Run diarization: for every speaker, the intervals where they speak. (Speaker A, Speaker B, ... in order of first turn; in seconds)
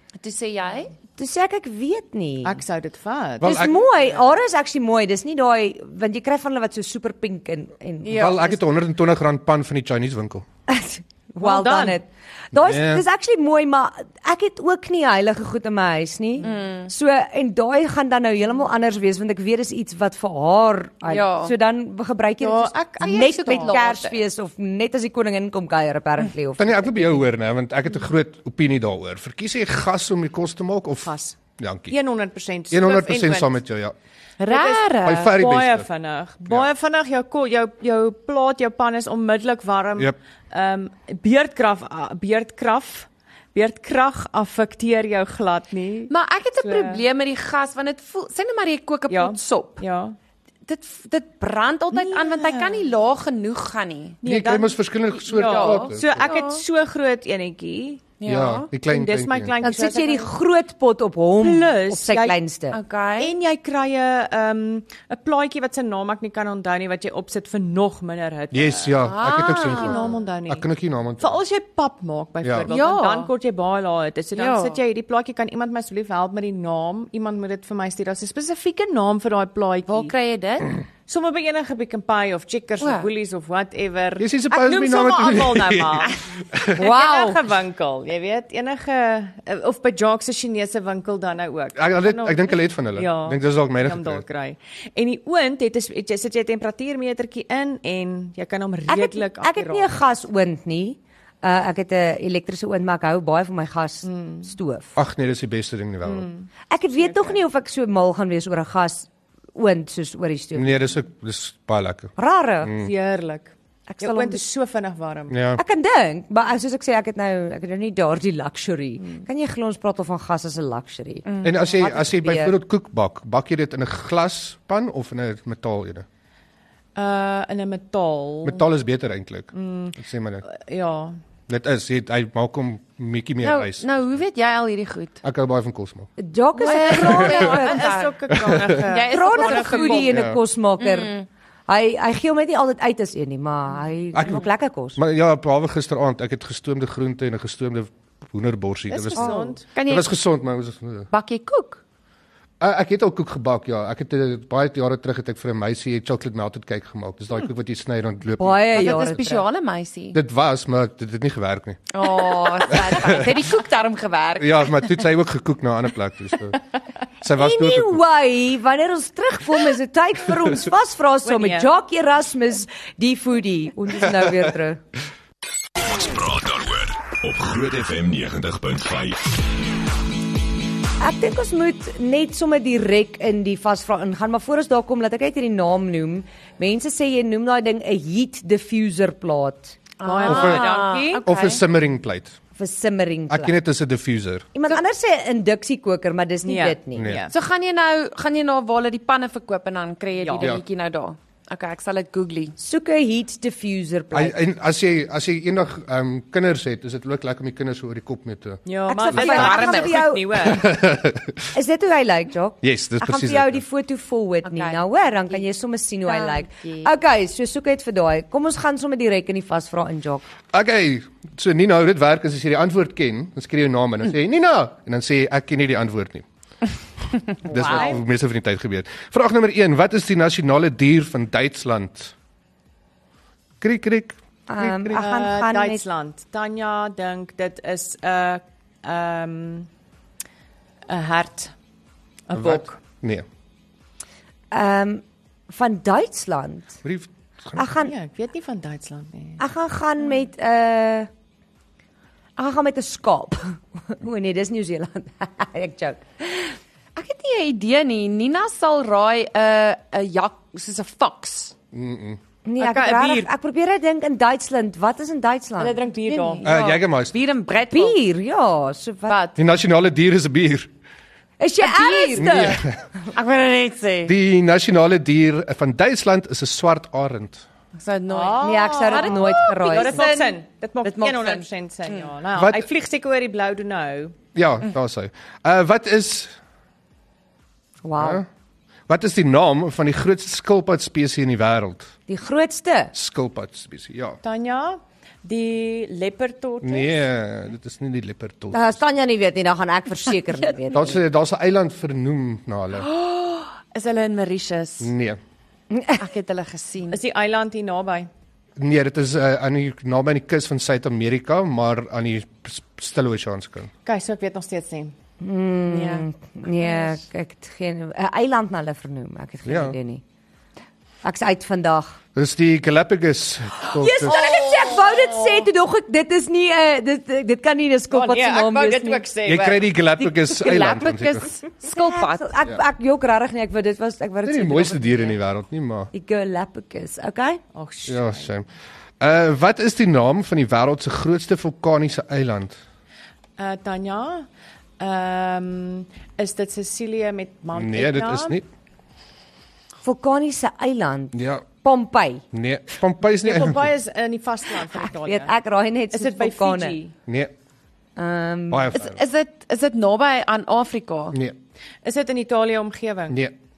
Speaker A: 0.1-0.9, 8.0-8.4, 16.4-16.9, 21.1-21.5, 23.0-24.2, 34.4-35.3, 46.1-49.8, 50.6-54.2, 55.3-56.6, 58.2-58.7, 62.7-63.4, 69.0-70.1, 72.7-73.3, 74.4-74.8, 79.9-80.7, 82.8-83.1, 113.9-114.4, 121.2-121.6, 133.4-135.2, 136.6-140.2, 140.8-141.2, 149.6-150.1, 151.1-151.8, 158.7-160.2, 161.9-164.9, 190.0-191.6, 197.3-202.5, 209.0-210.1, 214.4-215.4, 216.1-216.9, 257.0-261.5, 266.1-268.0, 269.1-269.4, 271.6-272.6, 273.1-274.1, 277.8-282.0, 302.8-304.9, 306.0-307.0, 315.7-316.1, 316.6-317.0, 330.0-332.4, 358.8-361.2
Speaker B: 1.2-2.6, 3.4-8.6, 10.7-27.2, 59.6-62.8, 86.8-87.4, 98.9-104.9, 106.7-110.9, 112.2-112.7, 115.6-122.6, 136.2-137.8, 139.1-141.1, 141.7-145.0, 158.4-159.4, 167.3-174.8, 181.0-189.8, 192.6-193.6, 194.5-197.1, 202.6-204.3, 208.9-210.5, 211.5-220.2, 227.5-228.0, 234.5-235.8, 244.5-246.8, 247.6-247.9, 249.4-251.1, 252.4-256.6, 262.4-265.8, 267.7-269.2, 271.4-272.6, 278.4-280.0, 287.8-288.2, 292.1-292.9, 298.5-301.0, 305.7-306.0, 315.2-320.0, 321.0-322.0, 323.8-329.1, 331.6-335.2, 335.9-337.4, 349.8-352.2, 354.7-356.8, 358.0-358.8
Speaker C: 2.4-3.7, 11.4-12.0, 22.4-23.8, 31.0-31.4, 31.9-33.5, 34.5-47.0, 49.1-50.2, 51.9-52.8, 54.2-58.1, 58.8-60.3, 61.4-62.4, 63.2-70.7, 71.2-80.1, 81.1-86.1, 86.7-99.9, 104.0-104.5, 106.0-107.4, 112.8-115.3, 119.0-119.2, 127.0-128.7, 129.5-131.2, 136.7-140.1, 148.9-149.7, 171.2-171.7, 190.0-191.2, 196.4-197.3, 200.2-200.6, 208.7-210.7, 227.6-228.0, 234.9-239.7, 240.9-241.5, 242.3-242.8, 247.8-249.4, 262.6-263.3, 265.6-266.5, 278.1-284.2, 294.2-297.0, 306.9-308.1, 313.9-314.9, 324.1-325.5, 327.9-329.8, 337.5-338.3, 343.4-344.3, 344.8-348.4, 353.2-355.3, 355.9-356.9, 361.8-363.2
Speaker D: 3.4-3.8, 8.1-10.4, 12.5-13.0, 26.6-31.9, 32.7-33.9, 35.0-35.9, 54.2-56.3, 58.2-59.5, 68.5-71.4, 72.4-72.7, 84.2-86.8, 91.8-94.2, 104.9-106.3, 110.5-112.9, 115.3-115.6, 121.4-126.0, 128.4-130.4, 131.5-134.2, 135.2-136.1, 137.0-137.4, 138.5-138.8, 140.1-140.4, 144.1-144.4, 144.9-151.1, 152.6-159.0, 160.1-163.3, 164.4-166.6, 167.2-168.0, 190.2-190.7, 191.2-192.4, 193.3-194.5, 197.0-197.2, 204.1-208.6, 210.4-211.4, 212.6-213.6, 220.5-226.3, 227.4-232.1, 233.6-235.0, 242.3-243.2, 246.8-247.7, 261.7-262.2, 266.4-267.2, 269.4-270.7, 272.1-272.8, 274.1-277.4, 282.4-282.7, 284.3-286.4, 288.0-288.2, 288.9-291.9, 292.9-294.2, 296.6-298.8, 300.7-302.9, 304.8-305.2, 308.6-313.7, 319.5-319.8, 322.1-324.2, 329.2-331.3, 334.2-335.9, 337.9-338.5, 339.0-342.6, 347.5-348.5, 351.1-351.4, 352.3-353.7, 357.1-357.3, 358.5-359.0, 363.1-363.3
Speaker E: 175.8-179.3